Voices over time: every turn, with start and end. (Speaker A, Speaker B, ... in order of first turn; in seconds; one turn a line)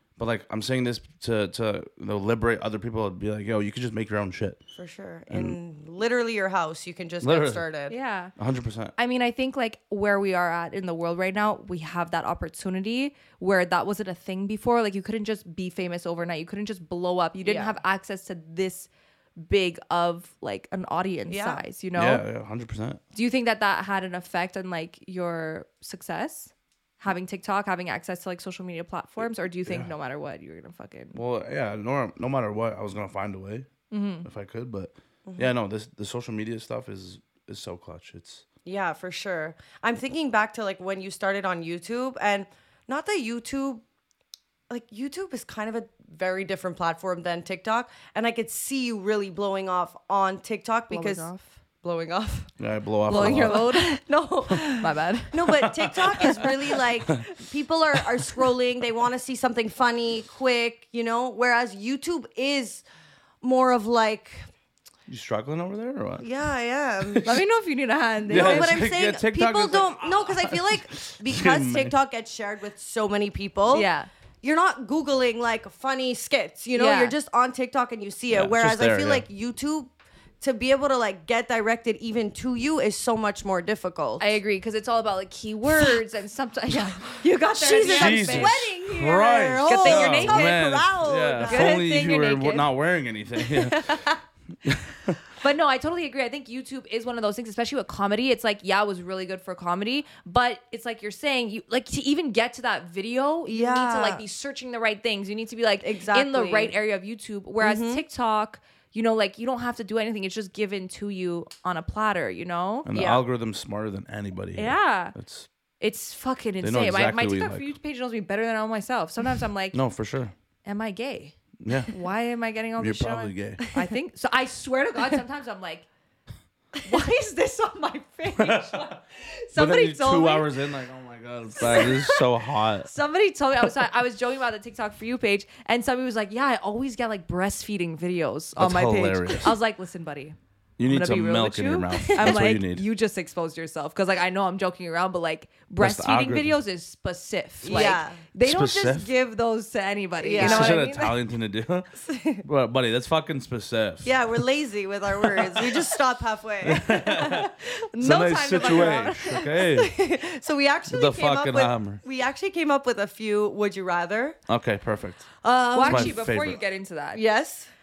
Speaker A: 0.2-4.6
Speaker B: 4.8-8.0
Speaker A: 5.3-5.6
Speaker A: 7.2-7.6
Speaker C: 7.9-8.3
Speaker A: 8.4-8.9
Speaker C: 9.0-22.2
Speaker B: 17.4-17.8
Speaker B: 21.3-21.6
Speaker A: 21.9-23.0
Speaker C: 23.1-31.2
Speaker A: 29.6-29.9
Speaker A: 31.1-33.7
Speaker C: 33.9-34.3
Speaker A: 34.2-38.5
Speaker B: 35.3-35.5
Speaker B: 38.6-43.8
Speaker B: 44.7-51.3
Speaker C: 50.9-51.5
Speaker B: 51.8-52.5
Speaker A: 52.6-53.7
Speaker C: 53.1-56.5
Speaker B: 53.1-62.8
Speaker A: 55.5-56.5
Speaker B: 63.4-64.5
Speaker A: 65.1-66.3
Speaker B: 66.2-67.4
Speaker A: 67.0-67.4
Speaker C: 67.2-68.9
Speaker A: 68.3-72.0
Speaker B: 68.3-73.9
Speaker C: 73.7-74.1
Speaker B: 74.4-84.3
Speaker C: 76.8-77.2
Speaker A: 78.3-79.3
Speaker C: 84.2-88.7
Speaker B: 87.5-91.9
Speaker A: 87.8-94.1
Speaker C: 89.7-90.6
Speaker C: 91.4-92.7
Speaker A: 94.6-95.2
Speaker C: 95.3-112.9
Speaker B: 103.5-104.2
Speaker B: 105.8-106.8
Speaker B: 107.6-108.0
Speaker A: 112.9-115.5
Speaker B: 112.9-113.2
Speaker C: 114.6-115.2
Speaker C: 115.8-119.8
Speaker A: 116.6-117.7
Speaker A: 119.7-120.3
Speaker C: 120.7-121.4
Speaker A: 121.6-121.9
Speaker C: 121.9-125.9
Speaker A: 122.8-123.6
Speaker C: 126.8-130.5
Speaker A: 128.4-129.0
Speaker A: 129.6-132.9
Speaker C: 131.6-132.2
Speaker C: 132.8-151.2
Speaker A: 138.6-139.6
Speaker A: 140.8-142.8
Speaker B: 142.1-142.4
Speaker A: 145.8-146.6
Speaker B: 147.6-148.2
Speaker A: 148.4-149.1
Speaker B: 150.2-150.8
Speaker A: 150.4-151.9
Speaker B: 152.1-152.4
Speaker A: 152.4-154.4
Speaker B: 154.1-157.4
Speaker A: 155.2-155.8
Speaker A: 156.6-159.9
Speaker C: 157.1-159.5
Speaker B: 159.7-164.4
Speaker A: 160.9-162.0
Speaker A: 164.5-165.3
Speaker B: 165.4-166.2
Speaker C: 165.7-167.2
Speaker A: 165.8-166.6
Speaker B: 167.1-167.7